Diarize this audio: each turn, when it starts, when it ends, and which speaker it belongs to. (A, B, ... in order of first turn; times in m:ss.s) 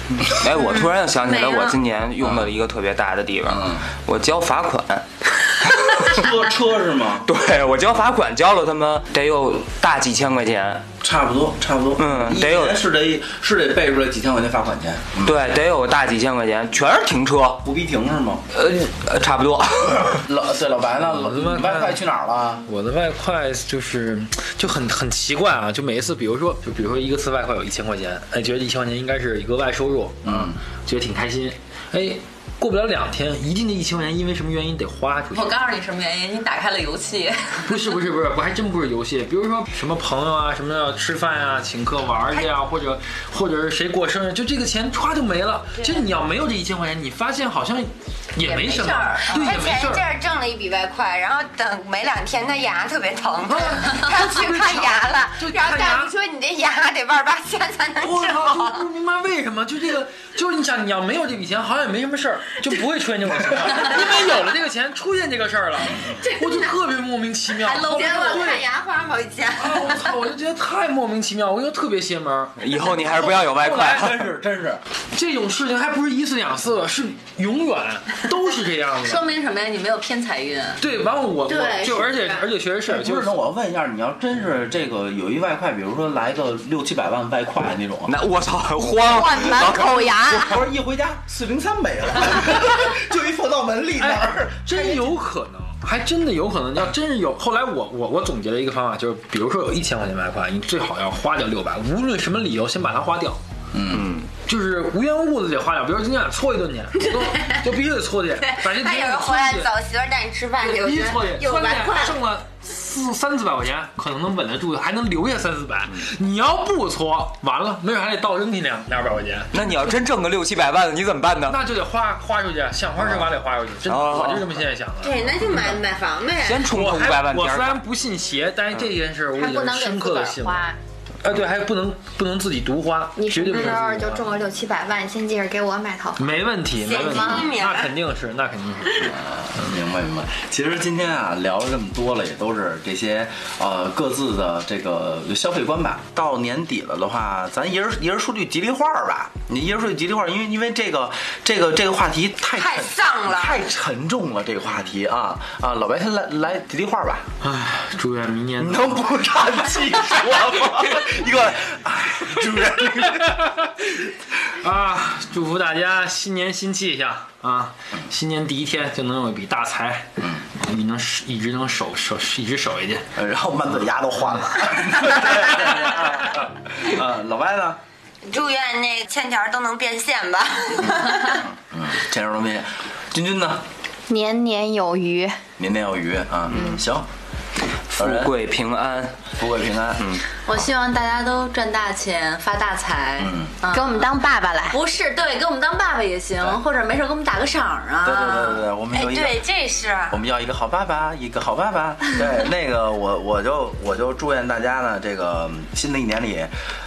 0:00.1-0:06.2 A
0:00.5-0:01.8 B
0:02.2-0:02.5 C
0:03.5-0:03.8 C
0:06.0-0:07.3 C
0:07.3-0:10.9 A
0:11.0-0:15.3 C
0:12.0-0:12.8 A
0:15.2-0:17.6 A
0:17.6-0:18.4 C
0:18.5-0:20.2 A
0:20.1-0:22.6 C
0:21.1-0:22.0 D
0:22.6-0:35.5 D
0:30.2-0:30.6 C
0:35.3-0:37.8 E
0:37.7-0:50.0 D
0:48.4-0:49.8 E
0:49.3-0:58.8 B
0:53.4-0:56.1 D
0:58.0-1:08.6 D
1:06.1-1:06.8 B
1:07.5-1:10.2 B
1:07.7-1:08.6 E
1:09.6-1:14.0 D
1:12.6-1:14.3 A
1:13.6-1:14.8 C
1:15.1-1:19.3 D
1:19.0-1:20.8 E
1:20.8-1:23.4 D
1:21.5-1:22.5 B
1:22.9-1:28.1 C
1:28.1-1:30.6 A
1:28.8-1:30.4 F
1:29.4-1:35.0 C
1:34.0-1:43.4 D
1:43.7-1:44.1 C
1:43.9-1:44.3 A
1:44.4-1:49.7 D
1:47.1-1:47.6 B
1:48.5-1:52.2 B
1:50.6-1:59.6 D
1:59.5-2:01.6 A
2:01.5-2:05.8 D
2:03.8-2:04.5 A
2:05.0-2:06.7 B
2:06.4-2:07.8 A
2:06.7-2:10.7 D
2:09.3-2:10.8 F
2:11.2-2:14.2 D
2:13.2-2:16.4 F
2:16.2-2:19.2 D
2:16.8-2:17.9 B
2:17.0-2:17.5 F
2:19.0-2:37.3 C
2:32.6-2:33.6 B
2:37.4-2:39.0 D
2:38.6-2:43.4 C
2:43.2-2:53.0 D
2:50.2-2:50.4 C
2:53.2-2:57.8 C
2:58.3-3:01.4 B
3:00.9-3:03.6 C
3:04.1-3:05.4 F
3:05.6-3:07.1 C
3:07.9-3:09.2 A
3:08.0-3:08.3 C
3:09.4-3:10.2 C
3:10.5-3:14.1 E
3:13.2-3:13.6 C
3:13.7-3:14.8 F
3:14.7-3:18.6 E
3:18.0-3:19.4 C
3:18.9-3:20.2 B
3:20.1-3:26.5 C